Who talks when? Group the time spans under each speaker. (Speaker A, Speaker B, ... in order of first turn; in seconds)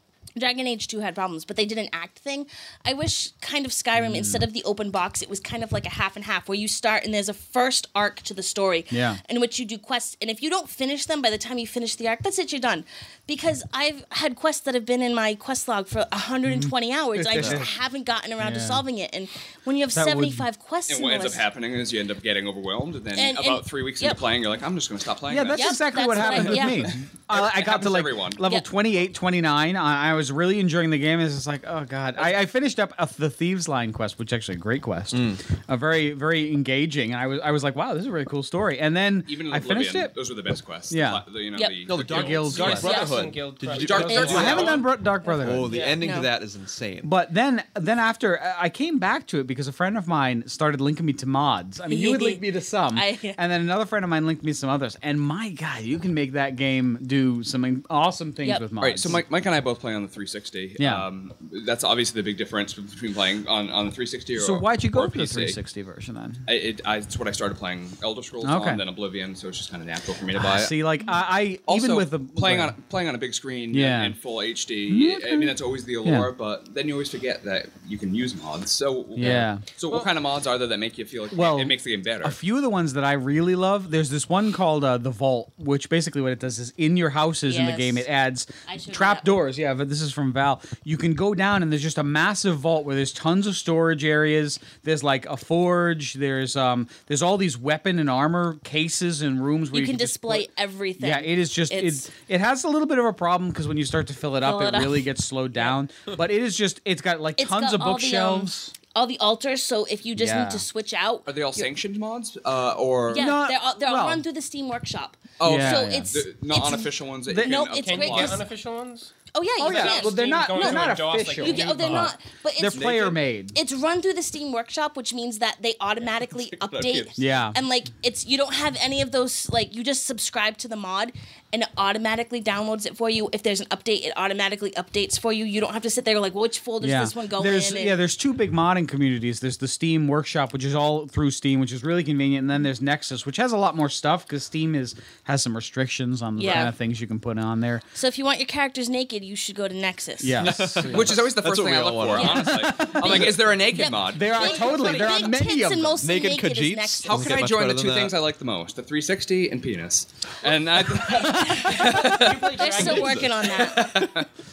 Speaker A: 0.4-21.4, 23.1-24.2, 25.5-26.9, 42.8-43.2, 44.0-44.7, 46.0-46.3, 51.9-53.4, 87.5-88.1, 88.7-89.5, 99.7-102.1, 104.4-105.8, 107.4-111.7, 113.1-118.4, 119.3-138.0, 146.4-146.7, 147.9-150.6, 152.1-157.5, 162.6-163.9
Speaker B: 4.0-4.5, 8.9-9.2, 16.5-17.7, 18.4-18.8, 19.9-20.5, 25.3-40.1, 40.9-41.2, 42.1-42.8, 44.1-45.8, 47.0-59.2, 60.8-61.1, 64.3-66.4, 68.4-68.8, 70.3-72.8, 73.7-74.2, 74.9-76.3, 79.2-79.6, 81.3-108.7, 110.2-110.7, 113.1-114.2, 115.4-116.1, 117.3-117.6, 119.6-123.6, 127.2-127.6, 136.8-147.8, 150.2-151.3, 152.3-153.5, 154.0-156.1
Speaker C: 17.4-17.7, 35.1-35.4, 41.9-44.7, 45.3-47.1, 126.3-127.5, 150.3-152.5, 156.0-158.2, 162.6-164.0
Speaker D: 20.9-28.4, 39.3-43.0, 43.7-44.9, 58.8-65.6, 66.5-70.8, 71.7-82.4, 111.3-113.3, 115.4-118.4, 122.7-123.2, 150.9-154.5, 157.0-162.8, 163.5-164.3
Speaker E: 42.3-44.9, 45.6-46.0, 117.7-122.1, 154.4-155.3, 161.3-163.3